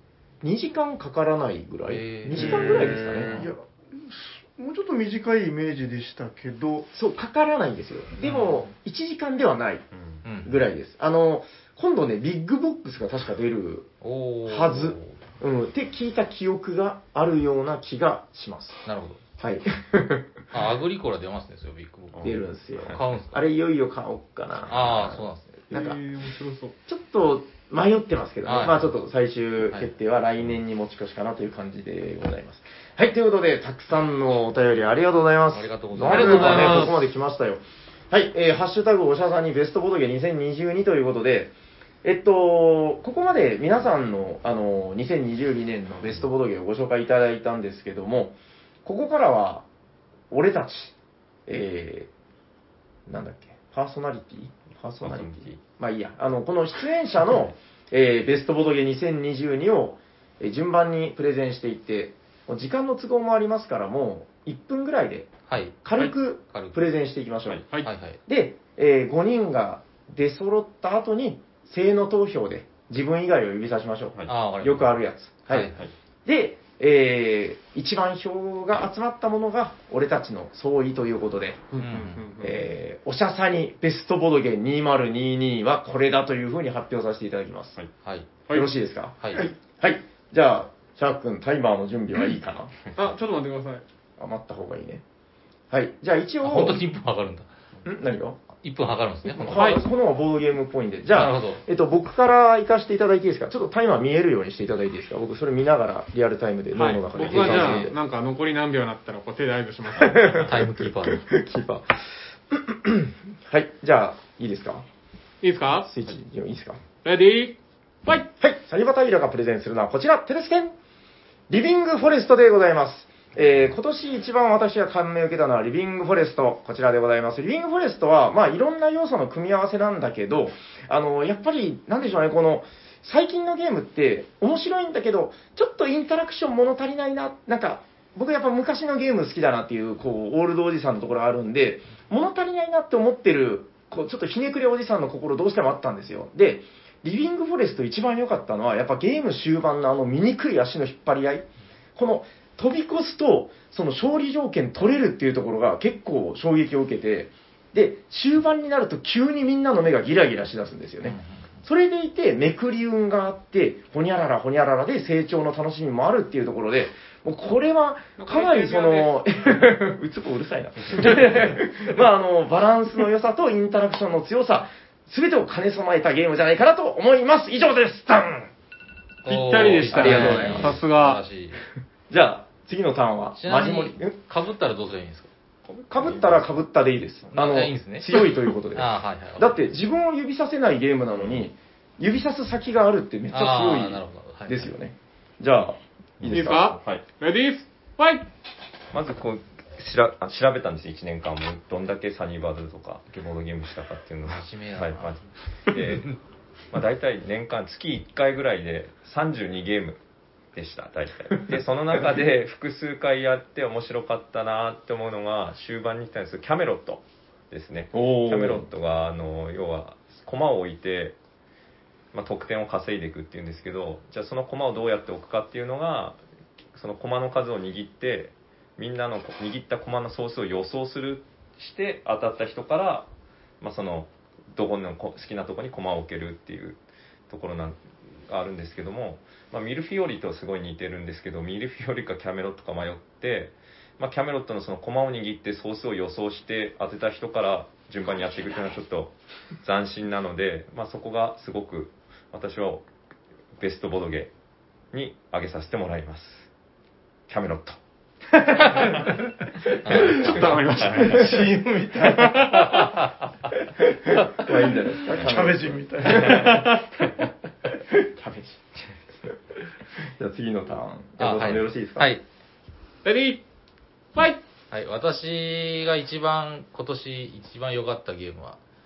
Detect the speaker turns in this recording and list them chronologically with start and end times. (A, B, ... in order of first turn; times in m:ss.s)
0:00.4-0:03.4 A
0:01.8-0:03.5 B
0:02.3-0:03.3 C
0:03.4-0:06.9 D
0:06.9-0:09.9 A
0:08.2-0:08.6 B
0:09.9-0:10.2 E
0:10.2-0:10.6 B
0:10.4-0:13.9 A
0:14.0-0:15.2 B
0:14.4-0:18.8 A
0:18.8-0:19.2 B
0:19.4-0:20.3 A
0:20.5-0:23.4 B
0:22.1-0:23.0 E
0:22.2-0:26.0 A
0:24.7-0:25.6 B
0:25.7-0:26.7 C
0:26.8-0:41.5 A
0:28.4-0:29.0 B
0:35.5-0:37.0 B
0:36.1-0:37.0 C
0:42.0-0:49.6 A
0:50.3-0:50.9 A
0:51.5-0:52.1 A
0:53.1-1:07.6 A
0:55.0-0:55.6 E
1:05.5-1:06.8 B
1:07.8-1:08.2 B
1:08.2-1:15.7 A
1:14.3-1:15.8 B
1:16.2-1:21.6 A
1:21.7-1:22.6 C
1:21.8-1:22.2 B
1:22.4-1:27.8 A
1:28.0-1:28.3 B
1:28.5-1:32.7 A
1:29.2-1:29.5 B
1:33.0-1:33.8 C
1:34.2-1:35.0 A
1:35.7-1:36.8 A
1:36.4-1:37.5 B
1:37.8-1:38.4 A
1:38.5-1:39.8 B
1:39.3-1:47.9 A
1:39.5-1:39.8 C
1:41.1-1:41.6 B
1:46.7-1:50.3 C
1:47.2-1:47.9 B
1:50.0-1:52.0 A
1:50.4-1:51.3 B
1:52.5-1:54.8 A
1:55.4-1:55.9 C
1:55.8-1:56.8 A
1:57.0-1:58.3 C
1:58.3-2:00.7 A
2:01.5-2:58.5 A
2:41.0-2:41.5 B
2:48.2-2:49.3 C
2:59.2-3:01.6 B
2:59.2-3:01.2 C
2:59.8-3:00.8 A
3:02.1-3:04.2 A
3:03.4-3:05.3 B
3:05.6-3:06.5 E
3:05.9-3:16.8 A
3:07.3-3:09.7 B
3:13.3-3:14.7 B
3:16.2-3:17.0 E
3:16.3-3:18.3 C
3:18.9-3:26.1 E
3:24.3-3:25.3 B
3:26.7-3:30.0 E
3:30.5-3:41.2 E
3:37.9-3:38.6 A
3:42.1-3:46.2 E
3:46.7-3:53.1 E
3:53.6-4:12.8 E
4:13.6-4:14.3 E
4:14.9-4:16.5 E
4:17.3-4:17.8 E
4:19.8-4:20.8 B
4:19.9-4:22.9 D
4:20.0-4:21.2 E
4:20.1-4:21.5 C
4:22.2-4:22.7 C
4:22.7-4:23.0 B
4:24.1-4:26.5 A
4:25.2-4:26.8 D
4:26.3-4:26.6 C
4:27.9-4:28.6 A
4:30.2-4:32.1 A
4:31.2-4:32.2 B
4:33.0-4:33.4 C
4:34.1-4:34.4 C
4:34.7-4:38.6 B